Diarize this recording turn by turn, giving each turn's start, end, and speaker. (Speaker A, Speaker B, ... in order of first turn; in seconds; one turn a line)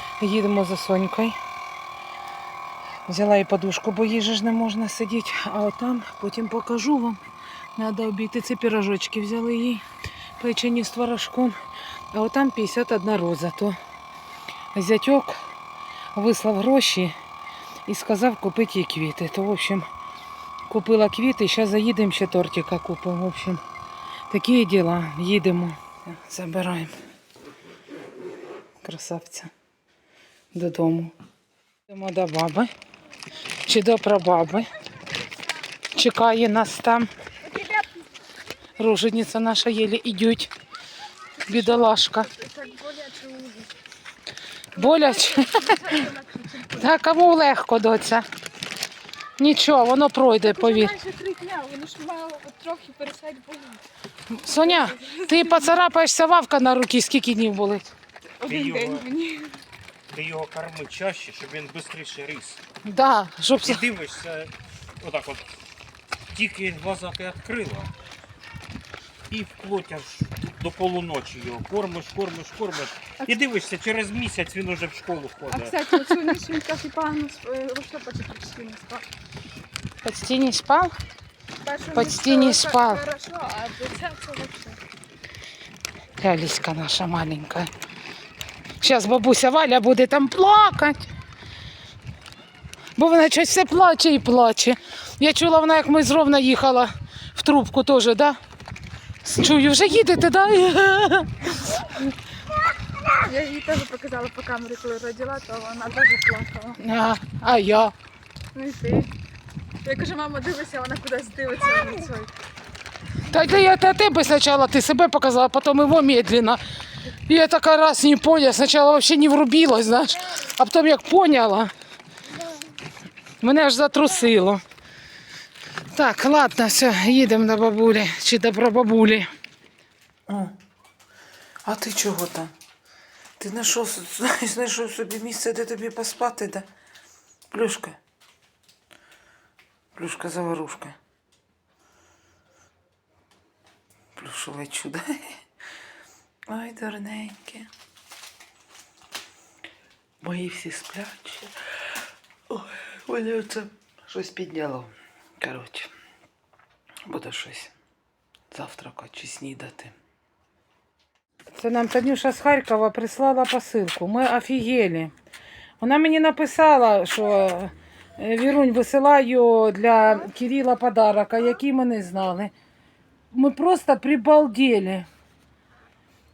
Speaker A: 0.2-1.4
Speaker A: 3.1-7.2
Speaker A: 7.8-9.8
Speaker A: 10.4-11.6
Speaker A: 12.1-13.8
Speaker A: 14.7-15.4
Speaker A: 16.1-17.1
Speaker A: 17.9-19.9
Speaker A: 20.7-23.6
Speaker A: 24.3-26.9
Speaker A: 28.8-29.5
Speaker A: 30.5-31.1
Speaker A: 31.9-32.7
Speaker A: 33.6-34.7
Speaker A: 36.0-37.1
Speaker A: 38.8-40.5
Speaker B: 41.4-43.7
Speaker A: 41.5-42.3
Speaker A: 44.8-46.0
Speaker B: 44.8-46.9
Speaker A: 46.8-48.2
Speaker A: 49.4-50.9
Speaker B: 50.4-53.8
Speaker A: 54.4-57.9
Speaker B: 54.5-55.8
Speaker B: 58.4-59.6
Speaker C: 58.5-59.1
Speaker C: 60.1-62.6
Speaker A: 62.8-63.8
Speaker C: 63.6-65.5
Speaker C: 66.3-67.9
Speaker C: 69.3-75.8
Speaker B: 75.5-79.0
Speaker A: 80.0-81.0
Speaker B: 81.6-84.8
Speaker A: 81.9-83.0
Speaker A: 86.2-87.7
Speaker A: 88.8-91.1
Speaker A: 93.0-98.4
Speaker A: 99.2-101.7
Speaker B: 103.2-106.8
Speaker A: 106.8-107.9
Speaker B: 108.5-109.1
Speaker B: 109.8-112.3
Speaker A: 113.3-116.6
Speaker A: 117.3-121.7
Speaker A: 123.4-124.6
Speaker A: 125.9-129.3
Speaker A: 130.3-130.5
Speaker A: 131.6-132.5
Speaker A: 133.4-136.7
Speaker A: 137.5-138.0
Speaker A: 139.9-140.9
Speaker A: 144.2-145.2
Speaker A: 146.5-147.7
Speaker A: 150.2-151.5
Speaker A: 152.5-155.9
Speaker A: 157.1-157.7
Speaker A: 158.5-159.9
Speaker A: 161.5-165.1
Speaker A: 165.8-172.5
Speaker A: 173.3-175.1